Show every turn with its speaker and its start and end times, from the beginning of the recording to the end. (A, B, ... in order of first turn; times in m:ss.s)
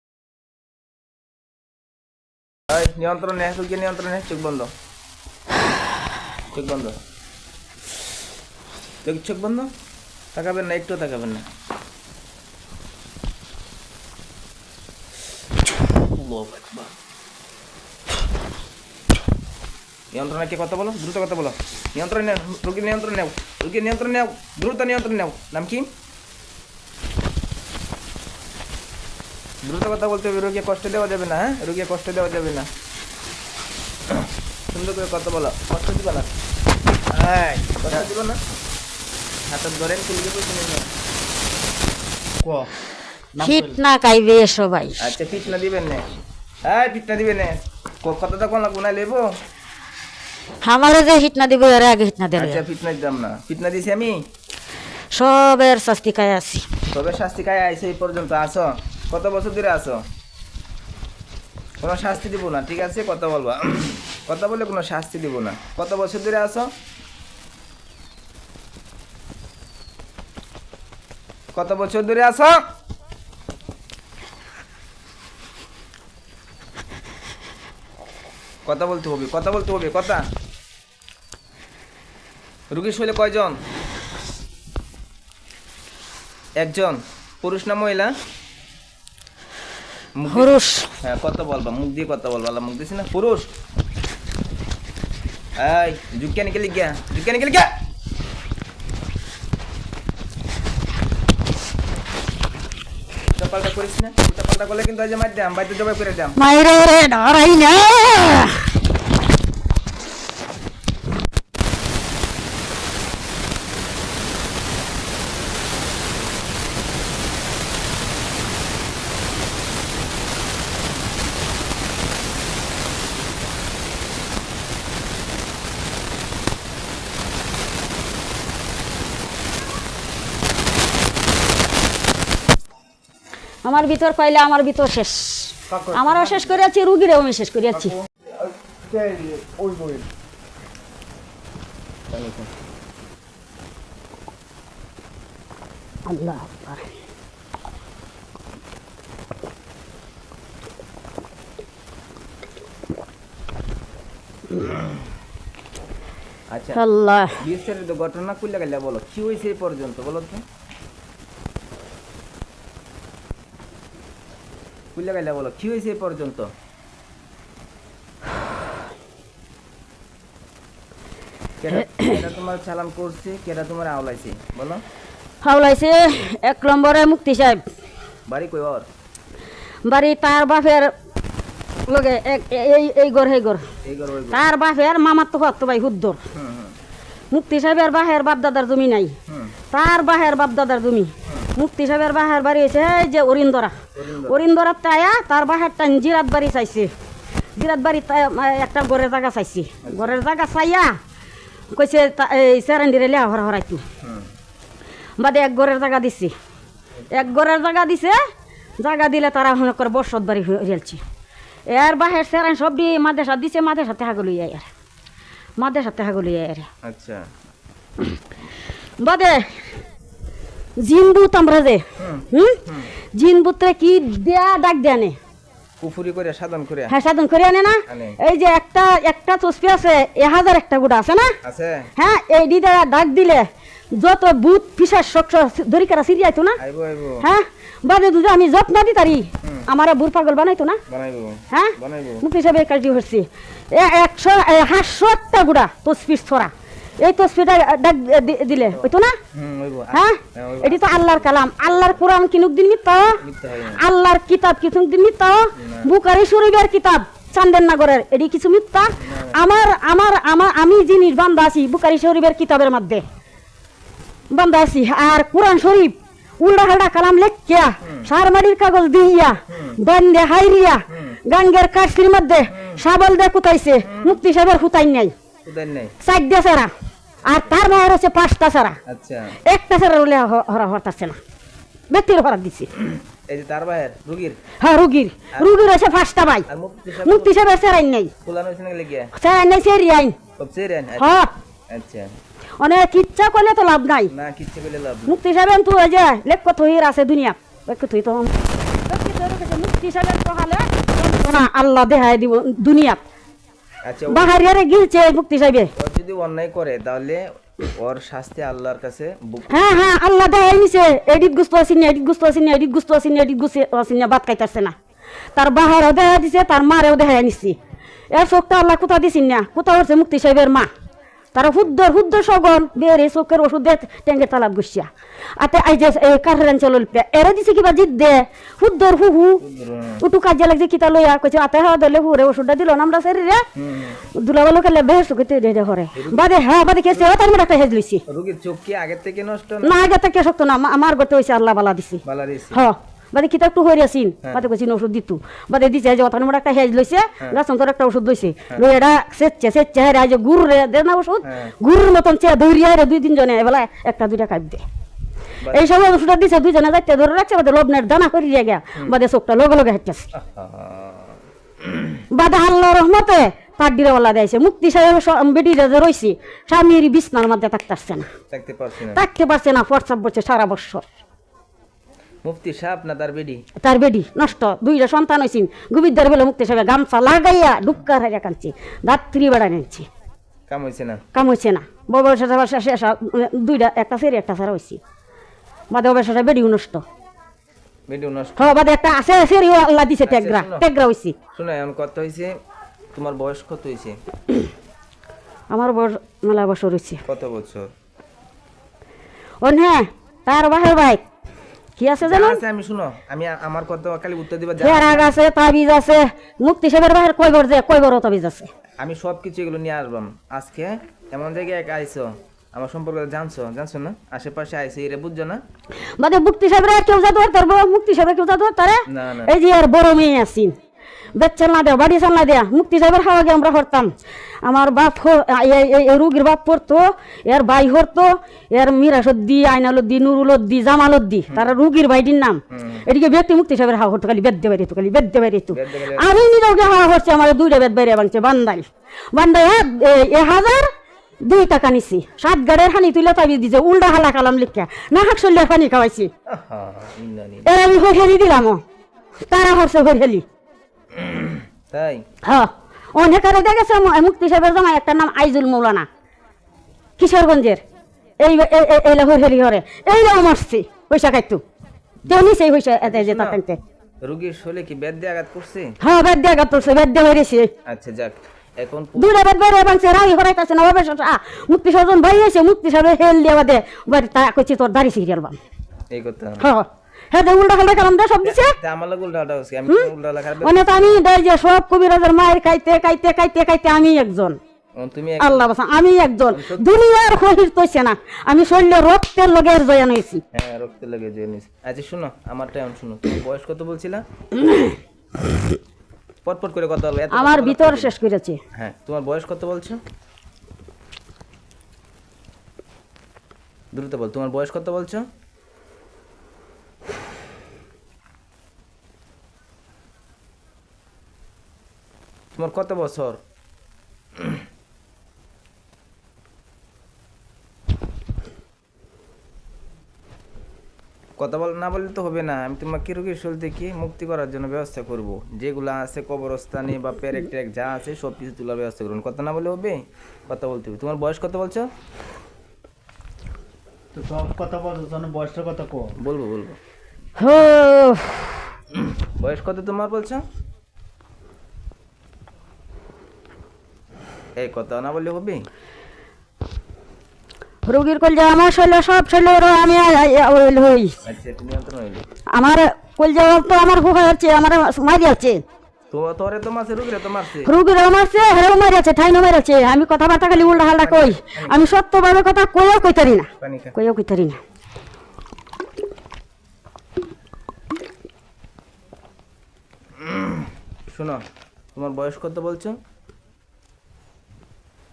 0:02.7-0:04.7 A
0:06.5-0:07.0 A
0:09.0-0:09.7 A
0:10.3-0:11.4 A
0:16.2-0:16.8 B
0:20.1-0:25.9 A
0:29.6-0:32.7 A
0:34.7-0:36.3 A
0:37.1-0:37.7 B
0:37.8-0:38.4 A
0:39.5-0:40.9 A
0:42.4-0:42.7 B
0:43.3-0:43.8 B
0:43.4-0:45.0 C
0:45.0-0:46.0 A
0:46.6-0:49.3 A
0:50.6-0:52.6 C
0:52.4-0:54.2 A
0:55.1-0:56.6 C
0:56.9-1:00.0 A
1:01.8-1:06.7 A
1:11.5-1:12.6 A
1:18.6-1:20.2 A
1:22.7-1:23.6 A
1:26.6-1:28.1 A
1:30.2-1:30.5 A
1:30.3-1:30.9 C
1:31.0-1:33.5 A
1:35.6-1:37.7 A
1:43.4-1:46.4 A
1:46.4-1:48.7 C
2:13.6-2:18.0 C
2:15.7-2:16.3 B
2:17.8-2:20.1 B
2:22.1-2:22.5 A
2:26.1-2:26.8 C
2:36.5-2:36.8 A
2:36.7-2:37.3 C
2:37.4-2:40.4 A
2:44.9-2:46.5 A
2:51.6-2:54.8 A
2:55.4-2:57.6 C
2:58.3-2:58.8 A
2:59.8-3:00.9 C
3:01.9-3:03.6 C
3:03.8-3:04.4 A
3:04.3-3:06.2 C
3:06.3-3:06.8 A
3:07.3-3:09.1 C
3:09.3-3:09.5 A
3:09.7-3:13.7 C
3:13.9-3:14.4 A
3:14.3-3:16.9 C
3:17.6-3:20.9 C
3:19.8-3:20.2 A
3:21.7-3:23.8 C
3:24.0-3:24.3 A
3:25.2-3:26.3 C
3:27.1-3:28.2 C
3:28.8-3:31.0 C
3:31.7-3:34.6 C
3:35.6-3:36.7 C
3:36.8-3:37.2 A
3:39.0-3:39.7 C
3:40.8-3:42.6 C
3:42.0-3:42.9 A
3:43.2-3:45.2 C
3:45.8-3:46.9 A
3:46.9-3:51.3 C
3:47.9-3:48.2 A
3:51.4-3:51.9 A
3:52.0-3:56.6 C
3:56.6-3:57.2 A
3:57.2-4:00.8 C
4:00.9-4:02.2 A
4:01.5-4:09.1 C
4:08.5-4:12.0 A
4:09.9-4:13.2 C
4:13.2-4:13.8 A
4:13.7-4:23.0 C
4:15.6-4:15.9 A
4:19.0-4:19.4 A
4:24.3-4:35.1 C
4:27.8-4:28.1 A
4:29.5-4:29.8 A
4:30.9-4:31.2 A
4:32.5-4:32.8 A
4:33.8-4:34.2 A
4:35.4-4:35.9 A
4:36.0-4:36.7 C
4:37.3-4:38.8 C
4:38.9-4:39.4 A
4:39.5-4:41.2 C
4:41.9-4:42.7 C
4:42.9-4:44.4 A
4:44.6-4:46.4 C
4:46.5-4:47.3 A
4:47.0-4:48.1 C
4:48.2-4:49.1 A
4:49.2-4:50.2 C
4:50.4-4:51.1 A
4:51.0-4:51.3 C
4:51.7-4:52.1 A
4:52.6-4:54.1 C
4:54.1-4:55.2 A
4:55.1-4:58.3 C
4:58.8-5:03.0 C
5:03.8-5:04.3 A
5:04.1-5:05.7 C
5:05.8-5:09.7 A
5:09.5-5:14.7 C
5:15.4-5:17.6 C
5:18.1-5:20.7 C
5:21.3-5:24.9 C
5:25.4-5:29.4 C
5:29.4-5:30.0 A
5:30.0-5:33.4 C
5:33.6-5:34.0 A
5:34.2-5:38.0 C
5:36.0-5:36.2 A
5:38.1-5:39.7 A
5:39.6-5:42.0 C
5:42.0-5:42.6 A
5:42.5-5:54.6 C
5:51.2-5:51.5 A
5:55.5-6:00.1 C
6:00.1-6:01.2 A
6:02.1-6:08.1 C
6:08.3-6:09.0 A
6:08.9-6:10.8 C
6:12.2-6:13.4 A
6:13.6-6:19.9 C
6:20.5-6:21.0 A
6:21.1-6:24.8 C
6:25.7-6:26.8 C
6:27.9-6:28.5 A
6:28.4-6:31.2 C
6:30.0-6:30.6 A
6:31.3-6:32.3 A
6:32.9-6:34.0 A
6:35.5-6:37.0 C
6:37.0-6:37.7 A
6:39.4-6:41.0 C
6:41.8-6:42.4 C
6:42.0-6:45.1 A
6:44.6-6:48.5 C
6:48.8-6:55.4 A
6:56.0-7:00.5 C
6:58.9-6:59.3 A
7:01.2-7:03.9 C
7:04.4-7:20.7 C
7:12.5-7:12.8 A
7:15.5-7:16.1 A
7:21.3-7:26.1 C
7:26.2-7:27.5 A
7:27.5-7:28.6 C
7:29.3-7:30.2 C
7:31.0-7:32.0 A
7:32.3-7:35.9 C
7:37.0-7:37.6 C
7:38.2-7:41.4 C
7:42.1-7:43.6 C
7:42.8-7:43.4 A
7:44.0-7:45.7 A
7:45.8-7:47.5 C
7:47.6-7:49.1 A
7:49.0-7:55.4 C
7:55.9-7:56.4 A
7:56.4-7:58.5 C
7:58.2-8:01.0 A
8:00.4-8:04.4 C
8:04.8-8:05.5 A
8:05.2-8:10.2 C
8:06.3-8:06.6 A
8:10.3-8:14.0 A
8:14.4-8:14.8 C
8:16.2-8:17.9 A
8:17.1-8:18.4 C
8:18.5-8:19.8 A
8:23.7-8:25.0 A
8:32.4-8:33.2 A
8:41.2-8:51.7 A
8:53.9-8:55.9 B
8:56.0-8:56.6 A
8:57.2-8:58.4 C
8:59.2-9:00.2 A
9:04.4-9:05.4 A
9:07.7-9:10.9 C
9:11.0-9:12.0 A
9:12.3-9:15.4 C
9:15.9-9:17.5 A
9:17.4-9:24.4 C
9:20.6-9:21.6 A
9:23.4-9:23.7 A
9:30.0-9:31.2 A
9:31.7-9:32.8 A